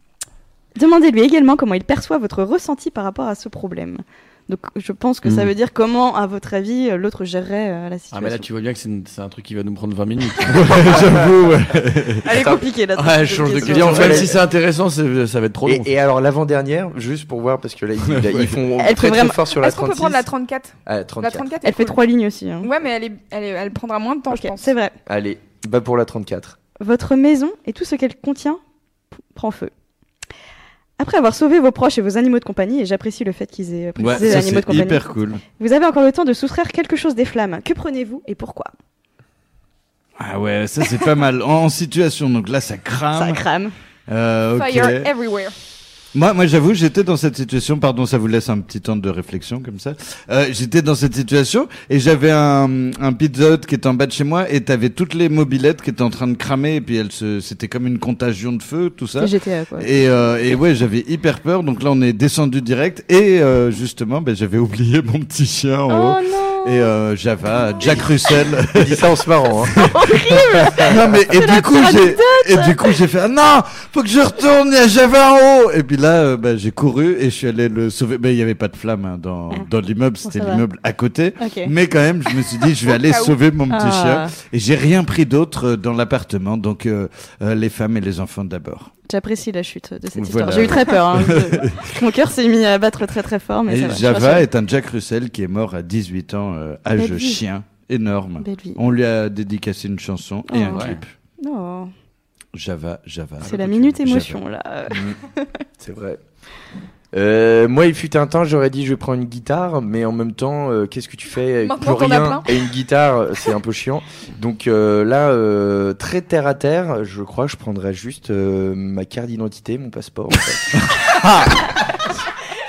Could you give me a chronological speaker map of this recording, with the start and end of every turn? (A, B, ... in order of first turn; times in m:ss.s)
0:00.8-0:08.5 A
0:05.2-0:05.5 B
0:08.1-0:10.7 B
0:10.4-0:12.3 C
0:12.2-0:14.2 A
0:12.3-0:12.6 D
0:13.0-0:15.9 B
0:13.2-0:14.4 D
0:15.6-0:20.3 D
0:18.1-0:18.6 C
0:18.8-0:19.5 A
0:19.6-0:22.0 E
0:20.9-0:21.5 D
0:21.6-0:22.7 A
0:22.6-0:24.7 E
0:24.3-0:25.0 A
0:25.1-0:26.6 D
0:26.8-0:28.6 A
0:29.3-0:29.7 A
0:31.0-0:35.0 A
0:34.0-0:35.4 C
0:35.6-0:38.7 A
0:40.2-0:43.4 C
0:43.1-0:43.7 A
0:44.1-0:45.1 C
0:44.6-0:45.5 E
0:46.1-1:09.1 C
0:59.2-0:59.9 A
1:05.9-1:06.9 A
1:08.7-1:09.8 D
1:09.7-1:28.9 C
1:09.8-1:13.0 A
1:10.7-1:10.9 D
1:20.2-1:20.6 A
1:21.4-1:21.7 A
1:23.0-1:23.4 E
1:23.7-1:24.3 A
1:29.1-1:34.5 A
1:30.2-1:32.0 C
1:33.7-1:41.1 C
1:37.0-1:37.4 A
1:38.4-1:38.8 A
1:40.5-1:40.9 A
1:40.7-1:41.0 B
1:41.4-1:41.9 A
1:42.5-1:44.4 C
1:43.4-1:45.6 A
1:44.9-1:45.2 D
1:45.8-1:46.2 D
1:47.1-2:01.0 D
1:51.6-1:52.5 E
2:00.8-2:01.8 C